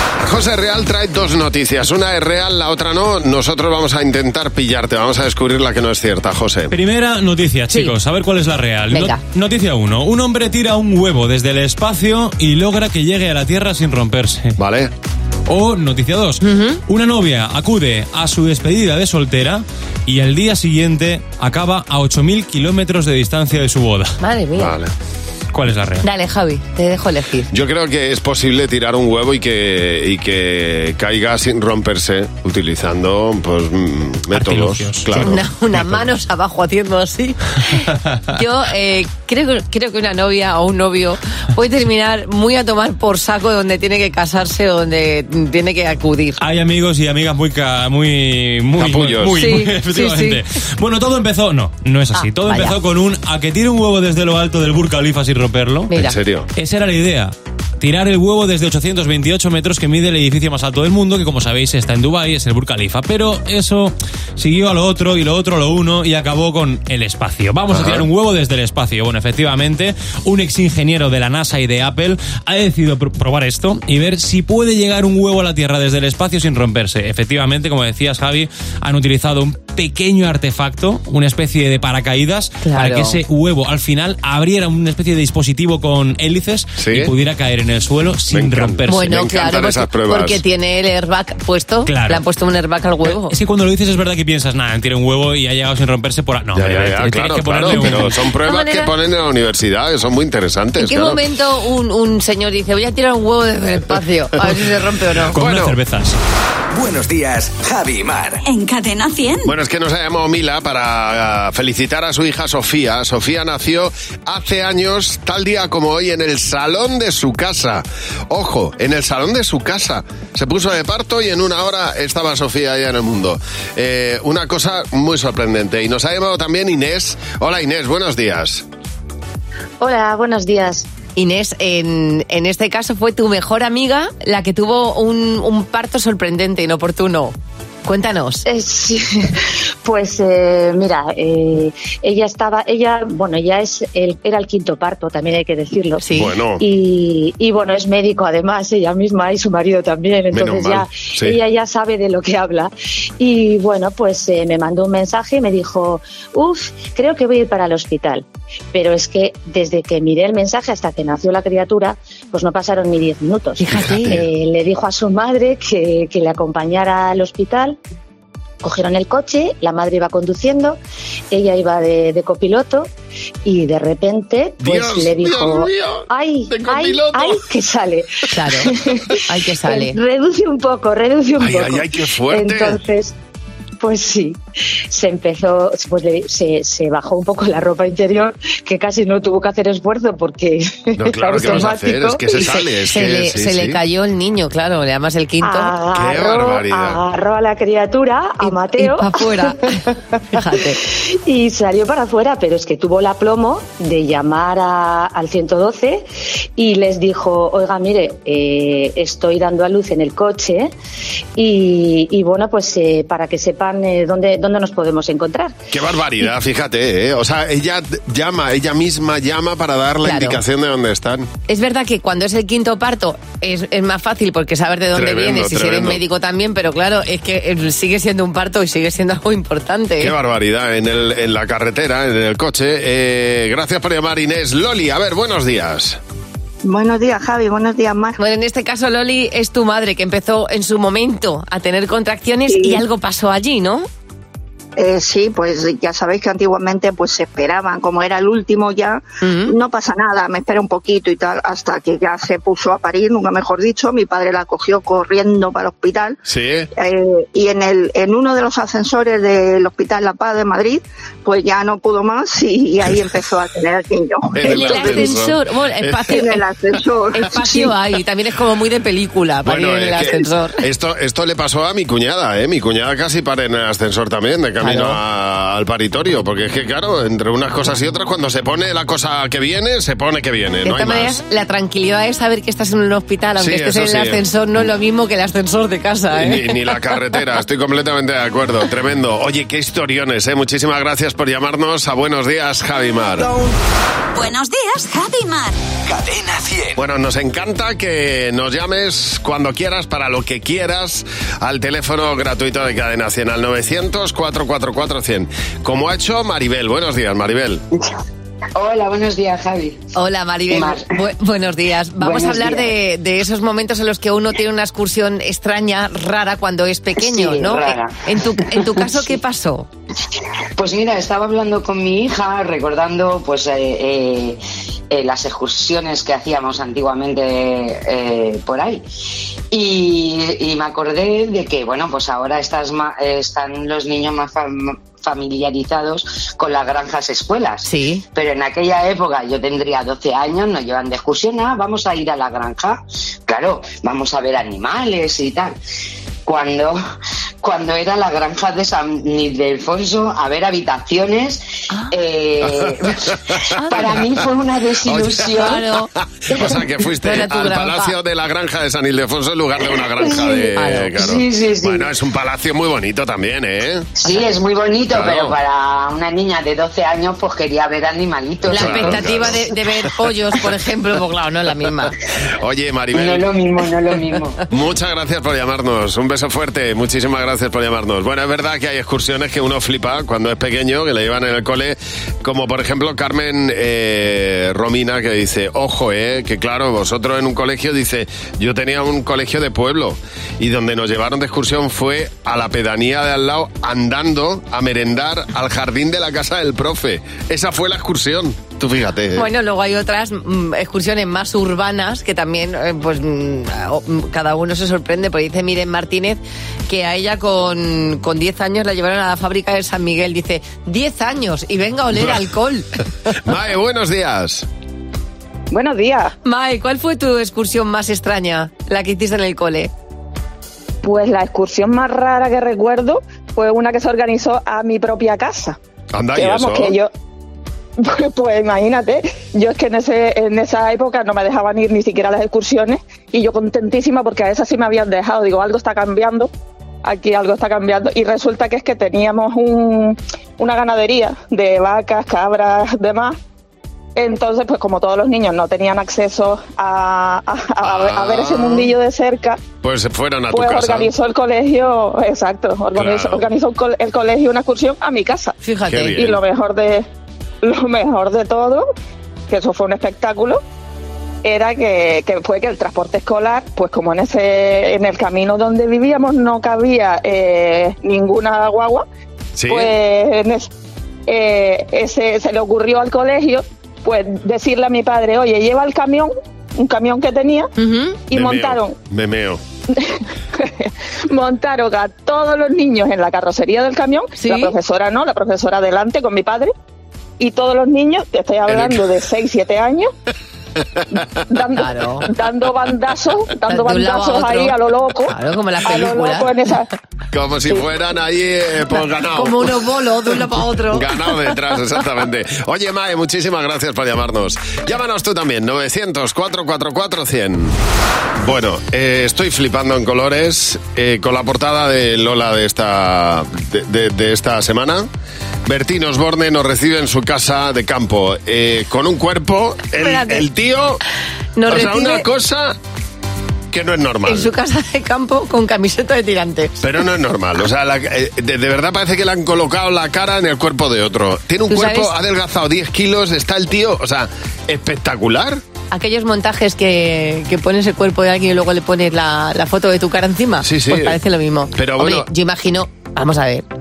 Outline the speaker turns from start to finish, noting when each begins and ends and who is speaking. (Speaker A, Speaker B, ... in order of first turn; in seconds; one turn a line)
Speaker A: 0.2-6.7
Speaker B: 6.7-14.6
Speaker C: 8.9-9.2
Speaker A: 14.6-14.9
Speaker B: 15.5-24.1
Speaker C: 16.4-16.8
Speaker C: 24.2-24.8
Speaker A: 24.6-24.9
Speaker B: 25.5-26.1
Speaker C: 26.0-27.5
Speaker A: 27.5-35.9
Speaker B: 34.3-35.2
Speaker C: 35.1-46.4
Speaker B: 46.4-55.9
Speaker A: 48.8-49.5
Speaker C: 49.4-50.4
Speaker C: 52.1-52.8
Speaker C: 55.9-56.2
Speaker A: 55.9-56.5
Speaker B: 56.5-89.1
Speaker A: 67.7-68.1
Speaker C: 82.6-83.2
Speaker A: 86.8-87.1
Speaker A: 88.3-90.4
Speaker C: 88.9-93.3
Speaker B: 91.8-92.2
Speaker B: 93.2-98.2
Speaker A: 96.5-101.2
Speaker C: 97.7-98.9
Speaker C: 100.8-105.3
Speaker B: 105.3-106.2
Speaker A: 105.3-105.8
Speaker D: 106.7-108.4
Speaker E: 108.4-109.5
Speaker A: 109.4-128.6
Speaker F: 129.8-130.9
Speaker C: 131.2-137.3
Speaker C: 137.8-138.4
Speaker F: 138.4-139.3
Speaker F: 139.8-146.0
Speaker C: 146.0-146.3
Speaker A: 146.1-146.6
Speaker F: 146.6-167.8
Speaker A: 150.3-151.4
Speaker C: 163.6-164.2
Speaker A: 163.8-164.2
Speaker F: 168.6-170.8
Speaker F: 171.3-172.9
Speaker F: 173.4-178.1
Speaker A: 174.6-177.4
Speaker C: 178.3-180.0
Speaker F: 178.7-183.1
Speaker A: 181.4-182.8
Speaker F: 183.8-184.4
Speaker F: 184.9-192.4
Speaker A: 190.9-193.8
Speaker C: 192.4-195.7
Speaker F: 195.4-199.6
Speaker A: 195.9-197.0
Speaker C: 198.4-200.8
Speaker F: 200.5-210.7
Speaker F: 211.4-215.6
Speaker A: 215.7-221.3
Speaker C: 220.0-220.4
Speaker C: 221.5-230.1
Speaker A: 224.9-226.0
Speaker A: 230.0-236.0
Speaker G: 236.6-238.2
Speaker C: 238.2-243.9
Speaker G: 242.5-242.8
Speaker G: 244.8-256.2
Speaker C: 249.2-249.5
Speaker A: 256.2-256.7
Speaker G: 256.8-265.1
Speaker A: 264.3-266.0
Speaker C: 264.4-266.4
Speaker G: 266.1-267.7
Speaker C: 267.1-270.6
Speaker A: 269.4-281.2
Speaker C: 274.6-275.0
Speaker C: 280.6-286.6
Speaker A: 283.4-284.2
Speaker A: 286.1-293.3
Speaker E: 294.1-295.6
Speaker D: 295.9-296.8
Speaker A: 296.8-307.6
Speaker H: 308.6-309.8
Speaker C: 309.9-319.7
Speaker H: 310.5-310.8
Speaker H: 312.0-312.7
Speaker H: 317.0-319.1
Speaker H: 320.6-324.4
Speaker H: 324.9-328.8
Speaker H: 329.5-345.5
Speaker C: 337.6-338.0
Speaker H: 346.2-346.8
Speaker H: 347.4-355.6
Speaker C: 353.6-354.0
Speaker A: 354.9-355.6
Speaker C: 355.3-357.9
Speaker A: 356.2-363.9
Speaker C: 360.5-361.0
Speaker H: 361.0-361.9
Speaker H: 364.0-369.3
Speaker A: 364.9-365.3
Speaker A: 368.5-369.4
Speaker C: 368.5-371.9
Speaker A: 372.4-373.2
Speaker H: 372.9-374.4
Speaker A: 374.5-399.3
Speaker C: 399.1-412.7
Speaker A: 413.1-414.5
Speaker I: 415.5-416.1
Speaker C: 416.2-419.7
Speaker I: 420.8-425.6
Speaker A: 425.9-426.8
Speaker I: 426.1-426.9
Speaker I: 427.8-436.3
Speaker I: 436.8-443.2
Speaker I: 443.9-449.4
Speaker A: 447.6-448.7
Speaker A: 449.6-450.9
Speaker I: 450.3-455.3
Speaker A: 452.7-453.2
Speaker C: 455.4-456.0
Speaker A: 455.6-456.2
Speaker I: 455.9-456.8
Speaker I: 457.4-458.6
Speaker I: 459.3-460.4
Speaker I: 461.2-468.8
Speaker A: 469.4-469.7
Speaker I: 469.5-470.5
Speaker I: 471.1-477.5
Speaker C: 477.6-478.0
Speaker I: 478.1-478.7
Speaker A: 478.1-479.4
Speaker I: 479.7-486.5
Speaker C: 484.1-484.5
Speaker I: 487.2-489.9
Speaker A: 488.5-488.8
Speaker I: 490.9-496.7
Speaker C: 491.5-492.1
Speaker C: 493.5-496.4
Speaker A: 497.1-499.6
Speaker C: 499.1-501.3
Speaker A: 500.7-507.6
Speaker A: 508.2-514.9
Speaker A: 515.5-520.8
Speaker C: 519.8-520.2
Speaker C: 521.4-522.0
Speaker A: 521.5-522.6
Speaker A: 523.5-524.3
Speaker C: 524.0-526.6
Speaker A: 526.6-535.4
Speaker C: 531.5-531.9
Speaker C: 535.7-543.4
Speaker A: 540.4-541.0
Speaker A: 541.5-542.1